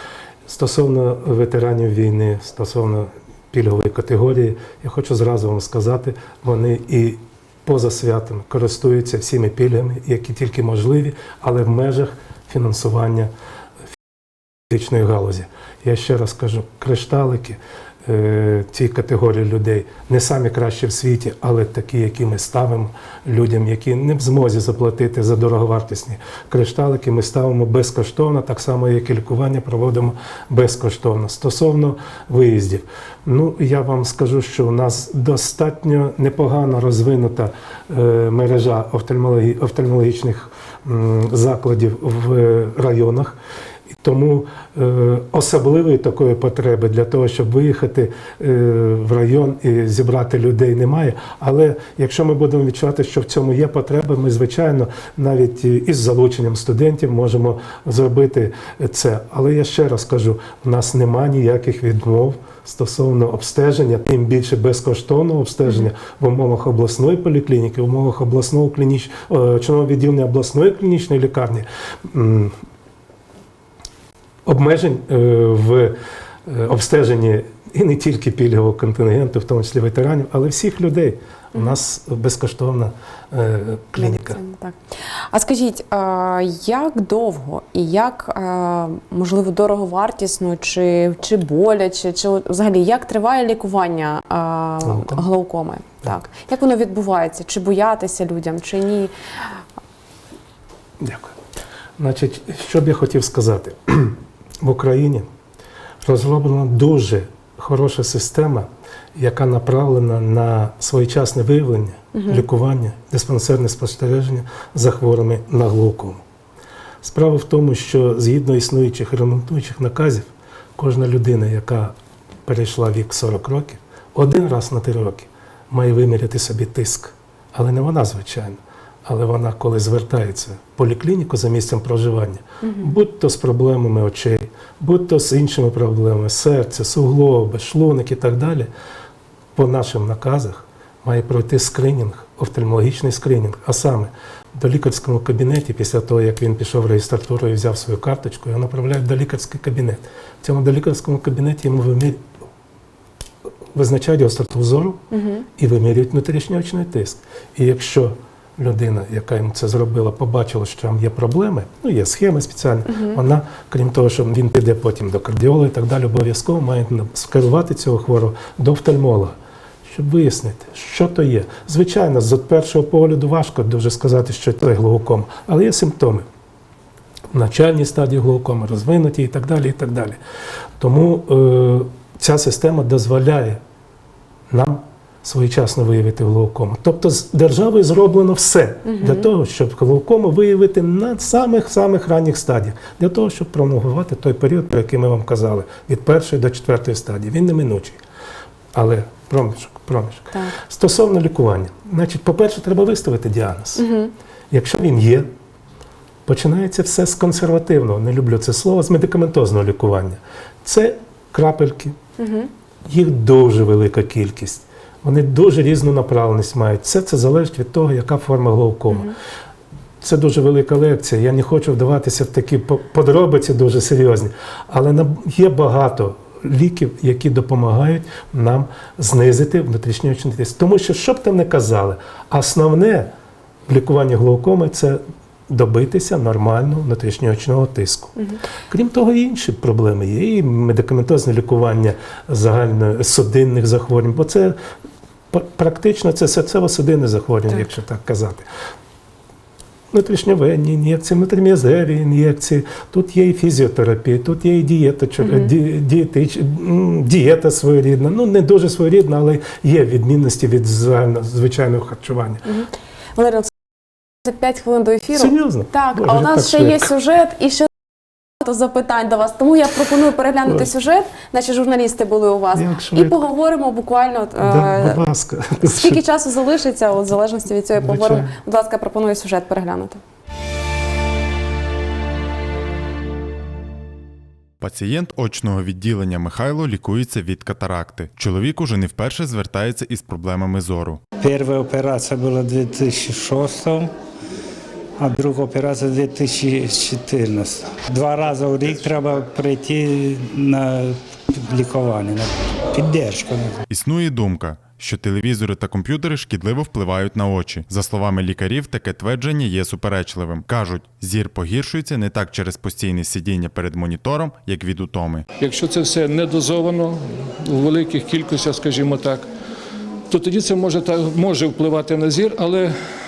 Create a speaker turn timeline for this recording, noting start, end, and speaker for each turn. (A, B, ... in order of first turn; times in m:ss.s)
0:00.5-0:13.3 A
0:14.7-0:43.4 A
0:44.0-1:12.6 A
1:14.4-1:24.4 A
1:24.0-1:24.8 B
1:25.3-1:39.1 B
1:34.8-1:35.2 A
1:41.0-1:41.4 A
1:42.0-1:45.3 A
1:46.0-1:56.2 A
1:52.1-1:52.4 B
1:57.0-2:01.9 A
2:02.4-2:18.7 A
2:12.6-2:12.9 B
2:19.5-2:32.2 A
2:33.7-2:35.0 A
2:35.1-2:35.4 B
2:35.6-2:49.4 A
2:42.9-2:43.2 B
2:49.9-2:56.2 A
2:57.3-3:00.2 A
3:00.8-3:03.6 A
3:04.5-3:18.0 A
3:08.8-3:09.2 B
3:18.7-3:23.8 A
3:23.8-3:24.1 B
3:24.5-3:25.3 A
3:26.2-3:32.0 A
3:32.2-3:32.5 B
3:32.8-3:39.1 A
3:40.0-3:53.1 A
3:53.7-3:58.1 A
3:58.7-4:04.6 A
4:05.3-4:08.4 A
4:09.9-4:22.4 A
4:15.2-4:15.5 B
4:22.4-4:23.5 B
4:24.2-4:27.7 B
4:25.1-4:26.9 A
4:28.4-4:35.0 B
4:32.5-4:33.2 A
4:34.4-4:36.0 A
4:35.6-4:40.0 B
4:37.8-4:38.4 A
4:44.6-4:51.0 C
4:51.2-4:53.9 D
4:55.0-5:03.6 D
5:03.7-5:15.2 C
5:15.4-5:19.3 E
5:20.1-5:22.7 E